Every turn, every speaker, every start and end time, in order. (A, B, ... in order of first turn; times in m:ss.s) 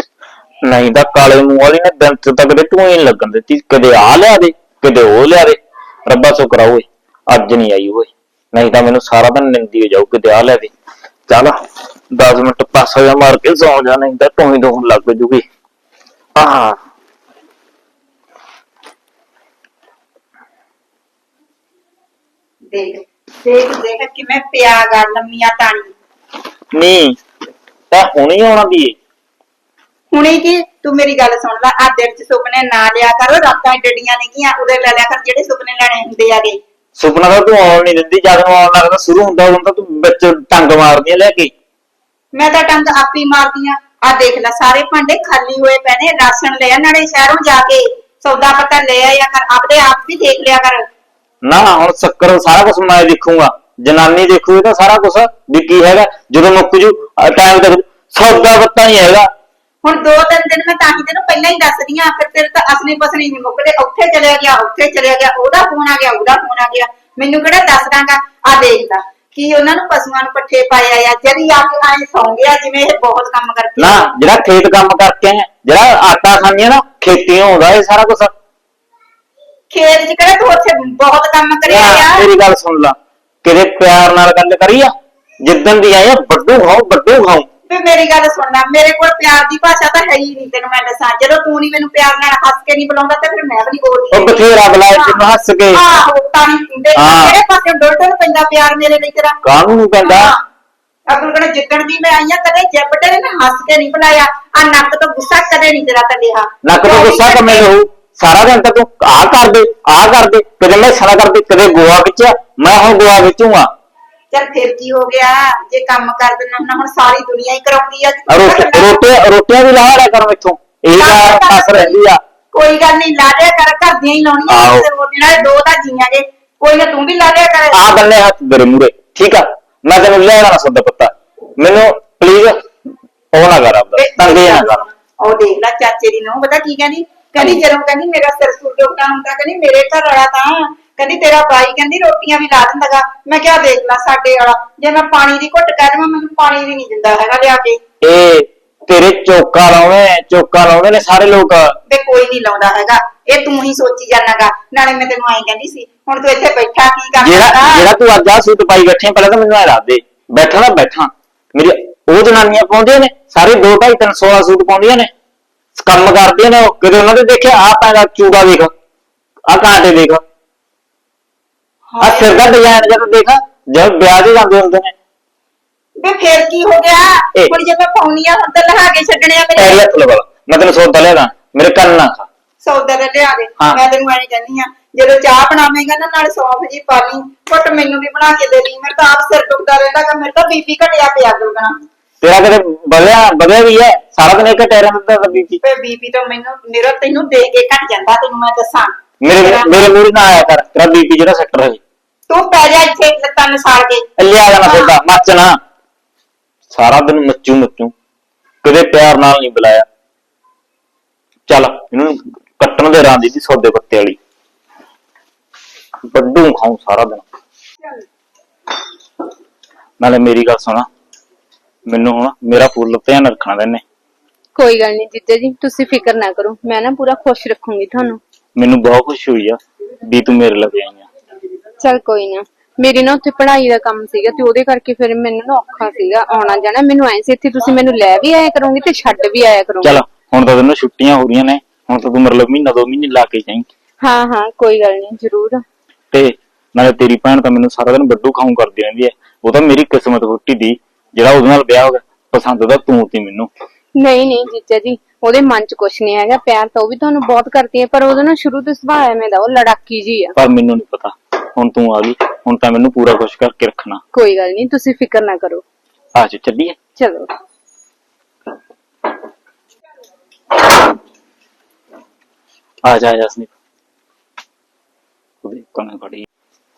0:00.6-0:10.7 A
0:11.3-0:11.6 A
0:12.1-0:15.4 A
0:16.4-0:16.8 A
0:22.7-0:25.9 B
0:26.7-0:27.2 A
0:27.9-0:29.0 A
0:30.1-0:36.6 B
0:37.0-0:41.5 A
0:42.3-0:50.9 B
0:51.4-0:59.3 A
0:59.8-1:14.1 B
1:13.8-1:18.3 A
1:19.7-1:22.2 B
1:21.7-1:27.5 A
1:27.7-1:35.2 B
1:34.1-1:35.8 A
1:35.7-1:39.4 B
1:36.9-1:37.4 A
1:39.4-1:40.3 A
1:40.0-1:40.4 B
1:41.1-1:47.6 B
1:46.6-1:53.7 A
1:54.3-1:59.0 B
1:58.3-2:02.2 A
2:01.0-2:02.0 B
2:02.5-2:07.8 B
2:04.5-2:04.9 A
2:07.7-2:12.6 A
2:13.3-2:14.9 A
2:14.0-2:14.7 B
2:15.2-2:27.8 B
2:17.4-2:17.6 A
2:28.0-2:31.8 A
2:31.9-2:37.8 B
2:37.2-2:45.1 A
2:45.8-2:48.7 A
2:49.5-2:50.2 A
2:51.9-2:52.4 B
2:52.0-2:54.9 A
2:56.0-2:59.9 B
2:59.6-3:02.3 A
3:02.6-3:11.8 B
3:12.2-3:15.6 A
3:15.6-3:19.8 B
3:19.2-3:21.8 A
3:22.3-3:24.0 B
3:24.2-3:25.6 A
3:24.6-3:24.9 B
3:26.7-3:27.9 A
3:28.6-3:29.8 A
3:31.5-3:34.2 A
3:36.1-3:37.3 A
3:40.0-3:40.9 A
3:41.9-3:43.8 A
3:44.5-3:48.2 C
3:48.6-3:51.0 A
3:51.8-4:00.0 C
3:59.8-4:03.7 A
4:04.0-4:05.6 C
4:06.1-4:13.5 A
4:13.9-4:20.3 C
4:20.4-4:24.0 A
4:24.1-4:25.6 C
4:26.1-4:26.8 A
4:27.0-4:27.3 C
4:32.8-4:33.5 A
4:35.4-4:36.2 A